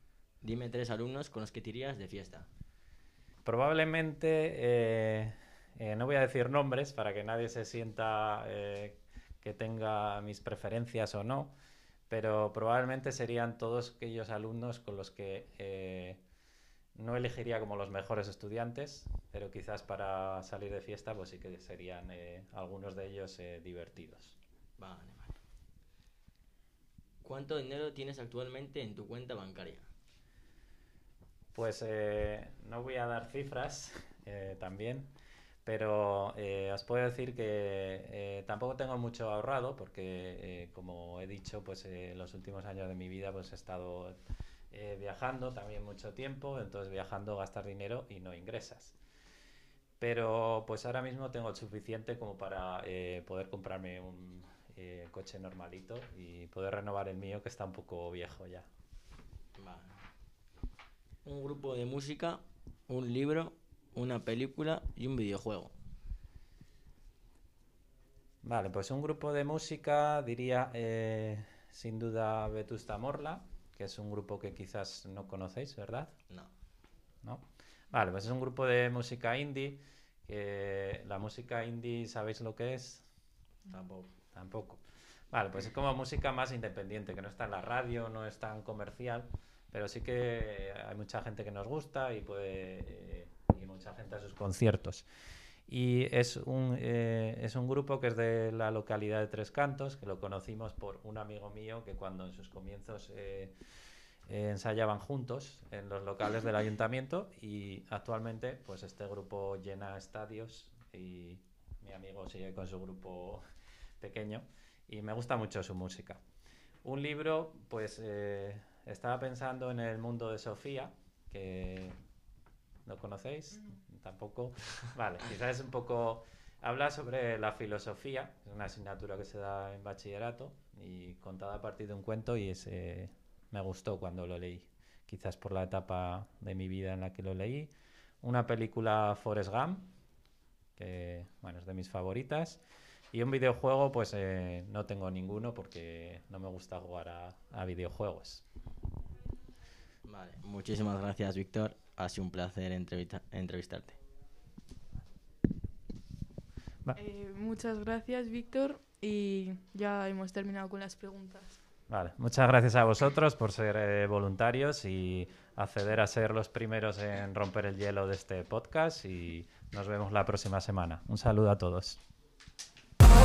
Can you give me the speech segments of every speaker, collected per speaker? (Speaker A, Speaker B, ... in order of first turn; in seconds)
Speaker A: 0.4-2.5, 24.8-25.4, 27.2-29.9, 59.6-60.0, 61.2-65.7, 83.7-84.1, 150.1-154.0
Speaker B: 3.5-11.5, 12.1-16.2, 16.9-24.4, 31.6-35.1, 35.6-44.2, 44.7-49.0, 50.0-58.7, 68.4-76.1, 77.2-83.1, 84.3-84.8, 85.3-95.1, 95.7-103.5, 104.3-113.4, 114.0-116.2, 116.8-122.0, 122.9-137.7, 138.2-139.9, 140.8-142.6, 143.1-148.4, 161.9-172.0
Speaker C: 157.0-161.6